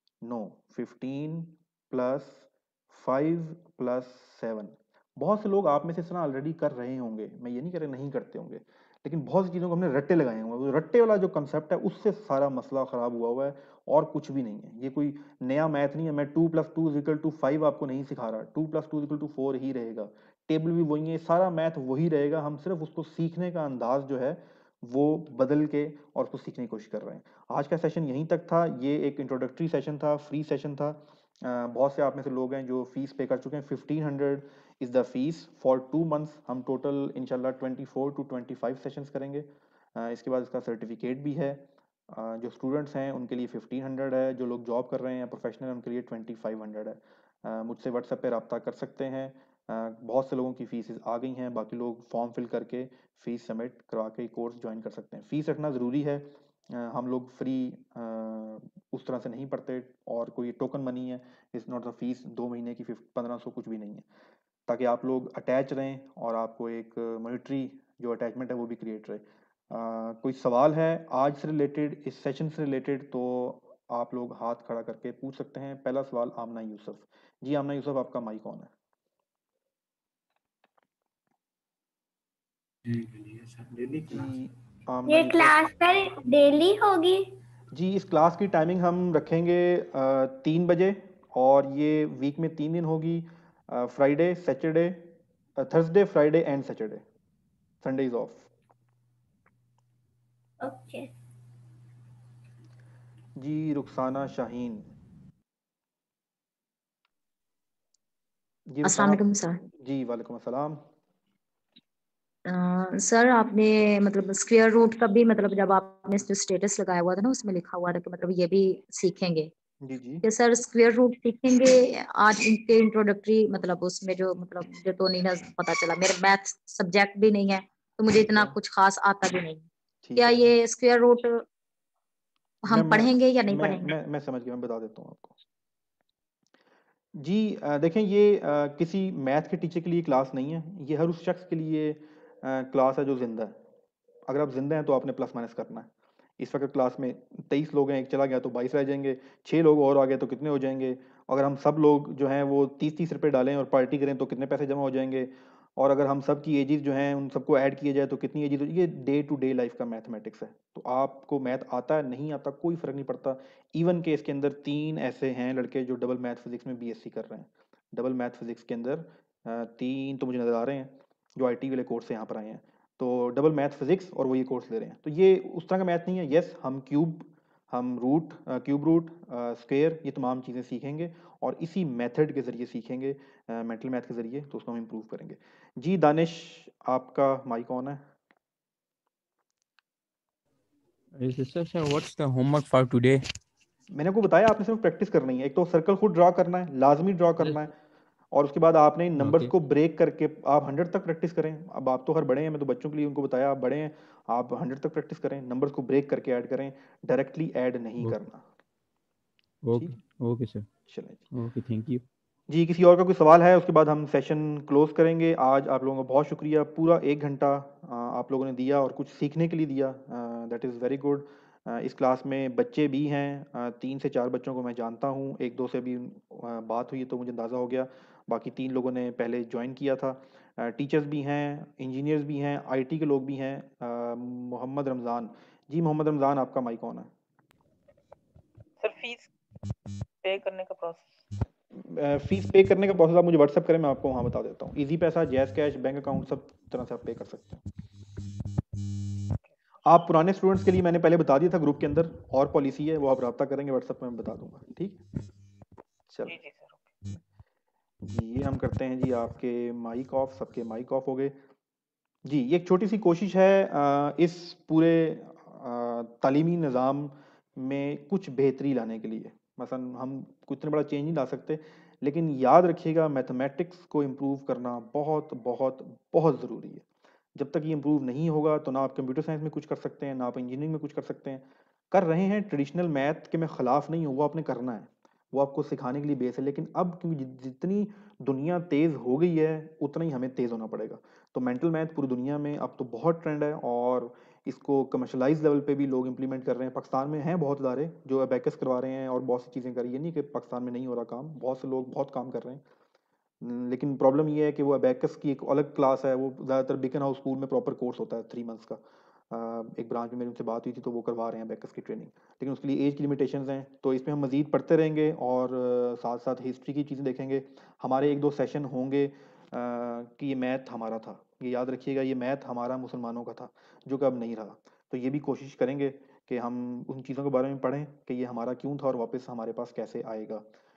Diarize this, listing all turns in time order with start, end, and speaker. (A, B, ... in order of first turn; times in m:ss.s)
0:00.2-1:04.0 A
1:04.7-1:18.7 A
1:24.0-1:25.7 A
1:25.0-1:27.3 B
1:27.7-1:37.0 A
1:37.8-1:38.5 A
1:40.6-1:41.1 B
1:43.4-1:44.9 A
1:48.7-1:50.8 A
1:48.8-1:49.6 C
1:52.5-1:59.5 C
1:59.8-2:00.2 A
2:00.2-2:09.6 C
2:10.0-2:10.5 A
2:10.2-2:11.4 C
2:12.6-2:13.9 C
2:12.7-2:15.3 A
2:17.2-2:23.6 A
2:24.3-3:08.0 A
3:11.2-3:13.2 D
3:13.9-3:17.7 A
3:18.3-3:28.4 A
3:19.2-3:19.5 D
3:29.6-3:30.7 D
3:30.9-3:31.3 A
3:31.3-3:32.0 D
3:32.5-3:57.1 A
3:58.8-3:59.3 E
4:00.2-4:01.1 E
4:01.7-4:07.6 A
4:09.8-4:15.0 A
4:16.2-4:16.8 E
4:18.0-4:21.4 A
4:22.2-5:02.6 A
5:03.4-5:30.4 A